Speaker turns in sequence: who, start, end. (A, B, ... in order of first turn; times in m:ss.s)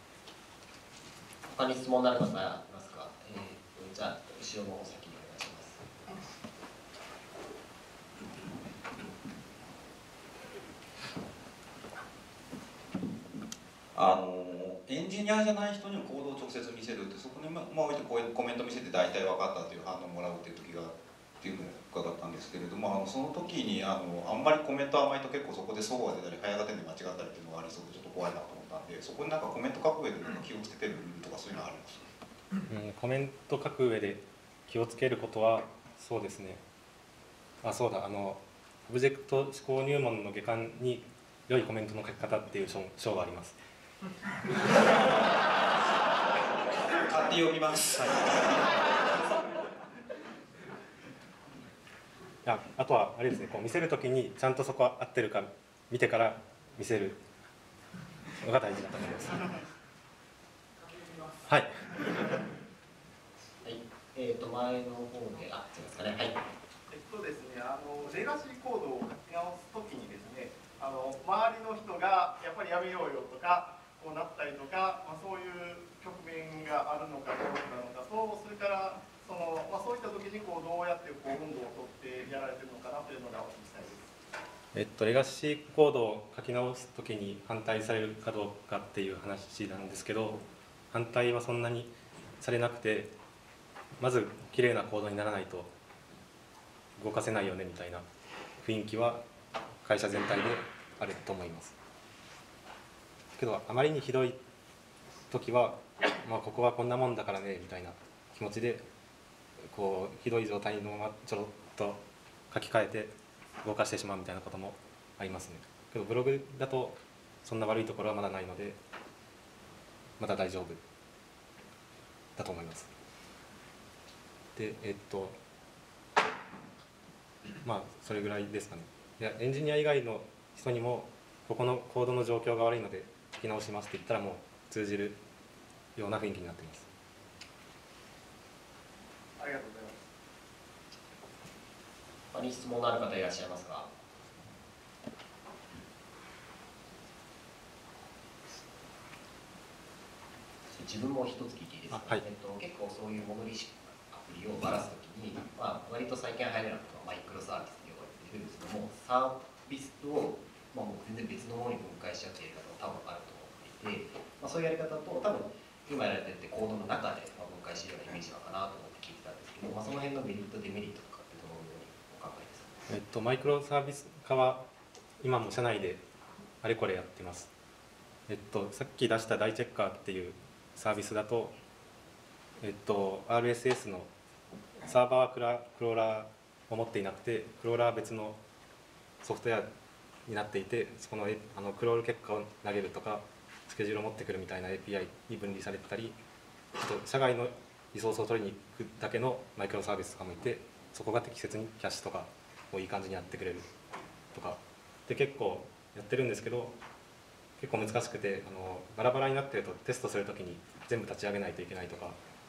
0:01.5-0:05.8 A
0:13.9-0:32.1 B
0:32.7-0:36.6 C
0:37.6-0:43.6 C
0:47.2-0:47.8 B
0:52.4-0:57.2 C
0:58.3-0:59.6 C
1:01.5-1:01.9 C
1:03.6-1:06.4 A
1:06.9-1:24.1 D
1:24.7-1:33.2 C
1:34.0-1:35.7 C
1:37.0-1:38.1 C
1:38.6-1:39.2 C
1:39.8-1:41.8 C
1:43.4-1:44.4 C
1:45.3-1:48.9 C
1:49.6-1:58.8 C
2:00.2-2:00.8 C
2:02.4-2:02.9 C
2:04.6-2:05.4 C
2:07.6-2:15.2 C
2:16.0-2:16.9 C
2:19.4-2:20.0 D
2:22.3-2:23.9 A
2:30.7-2:52.8 A
2:31.9-2:32.2 C
2:52.9-2:54.7 C
2:55.2-2:56.0 C
2:56.6-2:57.5 C
2:58.3-3:01.6 C
3:02.6-3:04.1 C
3:04.8-3:08.4 C
3:09.2-3:09.7 C
3:10.3-3:16.2 C
3:16.8-3:23.7 C
3:24.3-3:26.8 C
3:27.6-3:32.2 C